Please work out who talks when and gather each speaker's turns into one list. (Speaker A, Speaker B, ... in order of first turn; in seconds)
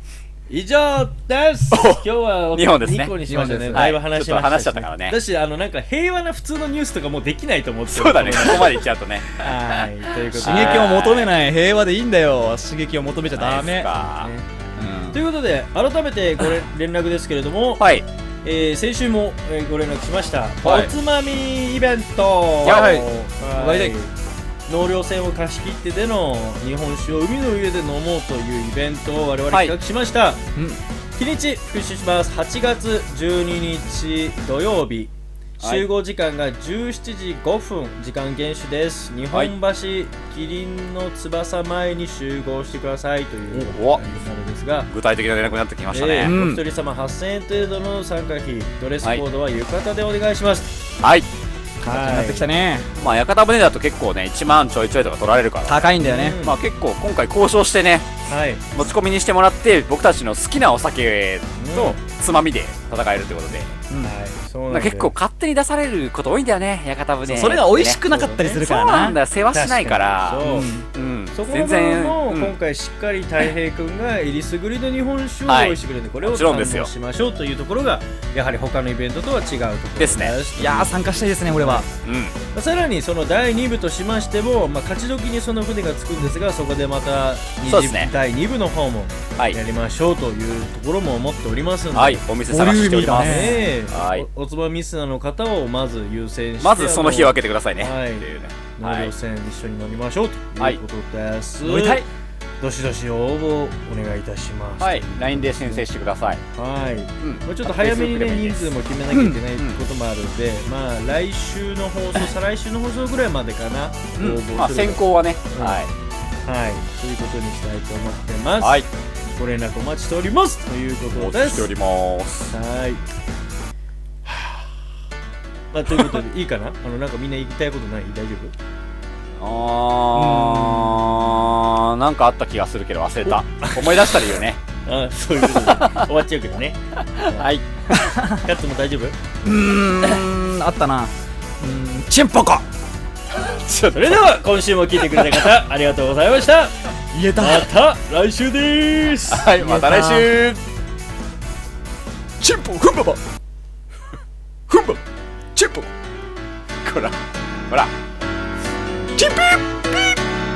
Speaker A: 0.5-11.1, 13.9-17.8, 18.4-24.1, 24.7-30.4, 31.1-44.9, 45.9-50.8, 51.8-52.5, 56.0-56.6, 58.3-58.6, 61.5-62.0, 64.0-65.1, 68.0-68.6, 69.5-70.7, 71.3-81.9, 82.5-92.3, 92.9-102.0, 102.6-105.9, 106.5-115.8, 116.4-121.7, 122.5-123.0, 124.3-124.7, 125.7-128.5, 133.6-134.2, 134.8-137.5, 138.3-139.2, 143.9-146.8, 147.3-150.0
Speaker B: 1.7-3.2, 3.7-5.2, 7.9-9.5, 10.3-11.3, 13.3-14.3, 17.8-18.1, 22.6-23.0, 29.5-29.8, 35.6-35.9, 43.5-44.0, 44.9-46.4, 51.0-51.3, 52.9-63.8, 64.7-68.0, 68.6-72.5, 75.5-76.9, 80.0-80.4, 82.0-82.3, 87.7-88.1, 91.9-94.3, 96.6-99.1, 101.6-102.1, 104.8-106.4, 107.2-108.7, 114.5-115.9, 118.6-118.9, 121.1-122.5, 129.4-134.6, 135.4-136.1, 137.0-138.1, 143.3-144.3, 145.1-145.4, 149.3-150.6, 156.8-157.9
Speaker C: 3.2-4.0, 10.3-13.9, 14.8-15.2, 20.6-20.9, 22.6-23.0, 23.6-23.9, 46.2-46.6, 51.8-52.9, 55.7-56.4, 67.2-69.2, 70.4-70.9, 80.5-81.9, 92.5-93.7, 109.1-109.4, 114.2-114.4, 130.1-131.3, 137.9-138.4, 139.4-142.6, 147.1-147.7, 149.6-150.3, 152.4-153.2, 154.7-155.0, 155.5-155.9, 159.1-160.2